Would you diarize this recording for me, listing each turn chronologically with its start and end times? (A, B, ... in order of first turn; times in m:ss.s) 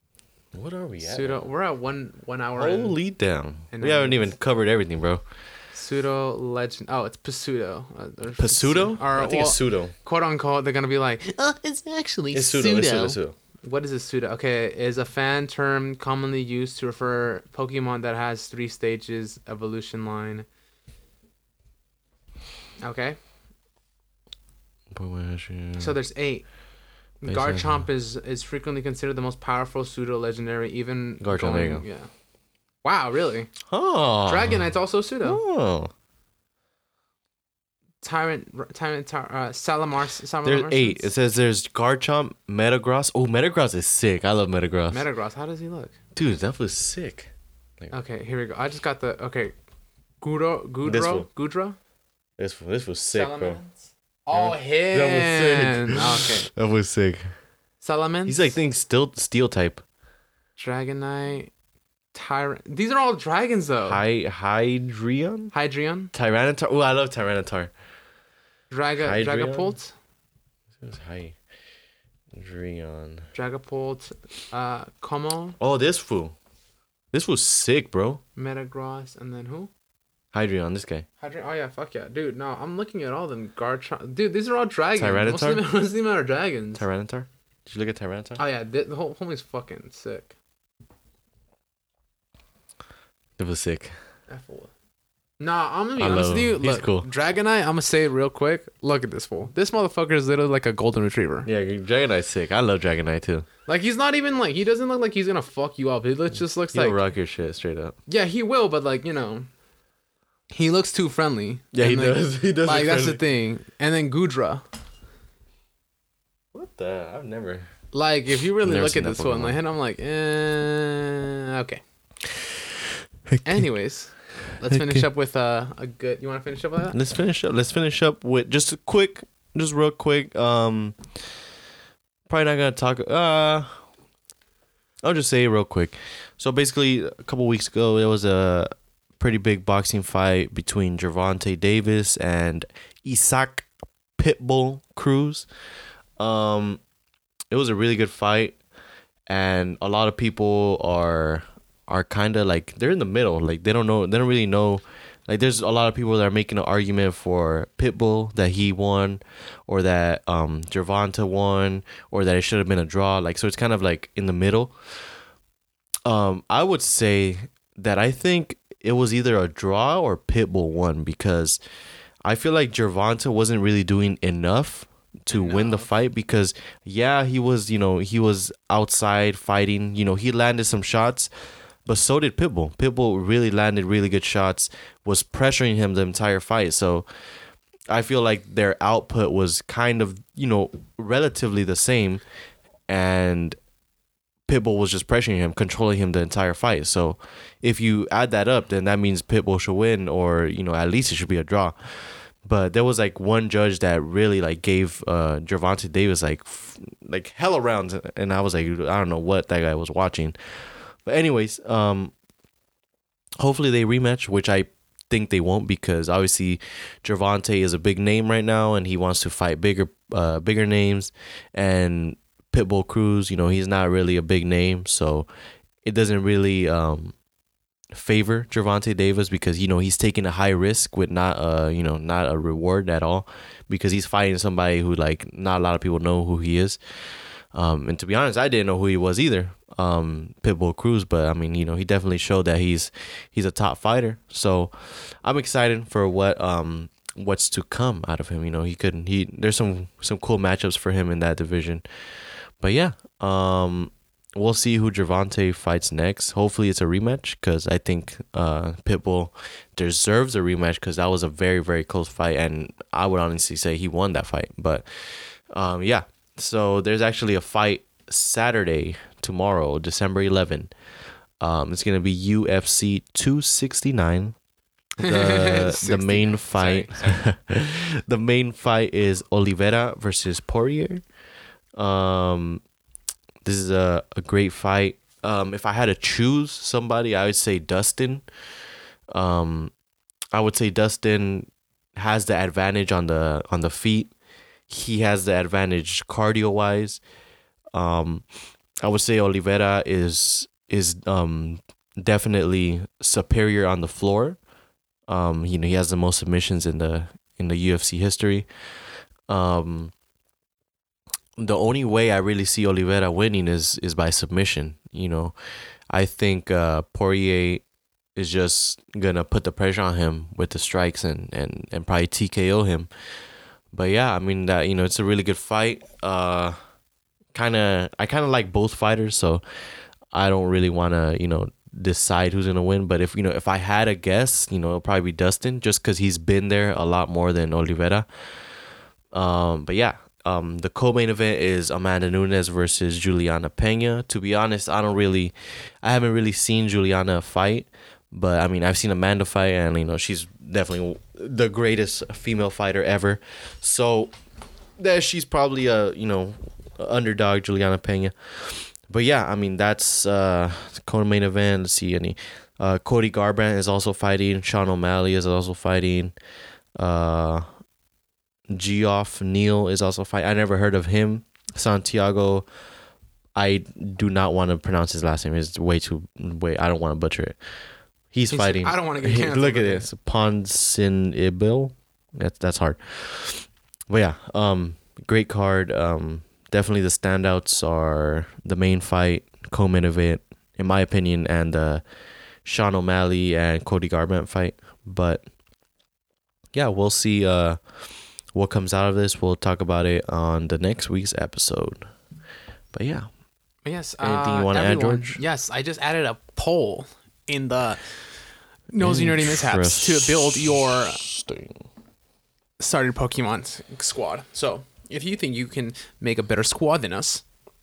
0:00.5-0:01.4 A
0:01.0-0:03.0 B
0:02.5-0:05.2 A
0:03.7-0:04.3 B
0:05.7-0:20.4 B
0:08.4-0:09.9 A
0:12.3-0:13.3 A
0:22.8-0:23.2 B
0:24.9-0:26.0 A
0:25.8-0:26.5 B
0:27.2-0:32.1 B
0:27.2-0:27.8 A
0:31.2-0:31.8 A
0:32.8-0:33.6 B
0:33.7-0:34.6 A
0:34.2-0:35.4 B
0:35.2-0:35.9 A
0:38.0-0:41.1 B
0:40.4-0:45.0 A
0:44.9-0:46.0 B
0:46.1-0:47.9 A
0:47.9-0:49.5 B
0:50.2-0:51.8 B
0:50.8-0:51.3 A
0:52.4-0:53.6 A
0:53.1-0:56.5 B
0:54.3-0:57.3 A
0:57.8-0:58.5 B
0:58.2-0:59.8 A
1:00.6-1:01.5 B
1:02.1-1:04.0 B
1:03.8-1:05.5 A
1:05.5-1:06.1 B
1:06.1-1:07.7 A
1:08.7-1:09.9 B
1:09.0-1:09.8 A
1:10.8-1:11.4 A
1:12.3-1:13.3 A
1:13.3-1:15.6 B
1:15.6-1:16.3 A
1:17.1-1:18.2 A
1:18.4-1:19.7 B
1:20.3-1:21.0 A
1:21.2-1:26.8 B
1:25.0-1:25.6 A
1:26.8-1:28.4 A
1:28.4-1:30.3 B
1:33.4-1:34.0 A
1:34.3-1:34.7 B
1:35.4-1:41.5 B
1:36.0-1:37.1 A
1:41.4-1:43.5 A
1:43.6-1:47.0 B
1:46.7-1:48.0 A
1:48.1-1:49.5 B
1:50.5-1:54.6 B
1:51.7-1:53.2 A
1:56.5-1:57.7 A
1:57.9-2:01.8 B
1:58.6-1:59.6 A
2:03.3-2:03.7 A
2:03.4-2:07.0 B
2:04.6-2:05.1 A
2:06.9-2:11.4 A
2:12.3-2:13.9 A
2:15.0-2:25.5 A
2:26.2-2:26.8 A
2:27.5-2:28.6 A
2:29.3-2:45.2 A
2:46.0-2:51.6 A
2:52.2-3:07.1 A
2:55.3-2:55.9 B
3:07.9-3:12.2 A
3:12.9-3:13.6 A
3:14.4-3:32.1 A
3:33.4-3:45.3 A
3:45.8-3:47.2 A
3:47.9-4:34.4 A
4:35.0-4:41.0 A
4:35.0-4:37.3 B
4:41.7-4:42.6 A
4:43.4-4:48.3 A
4:49.1-4:49.7 A
4:50.3-4:54.1 A
4:54.7-4:57.0 A
4:57.7-5:04.4 A
5:05.1-5:09.9 A
5:11.4-5:26.6 A
5:27.3-5:54.2 A
5:54.8-6:06.2 A
6:06.7-6:07.6 A
6:08.5-6:12.5 A
6:13.3-6:31.8 A
6:18.3-6:19.8 B
6:32.4-6:35.3 A
6:36.5-6:41.9 A
6:42.7-6:43.2 A
6:43.6-6:51.0 B
6:44.0-6:45.2 A
6:48.8-6:51.7 A
6:52.6-6:57.2 B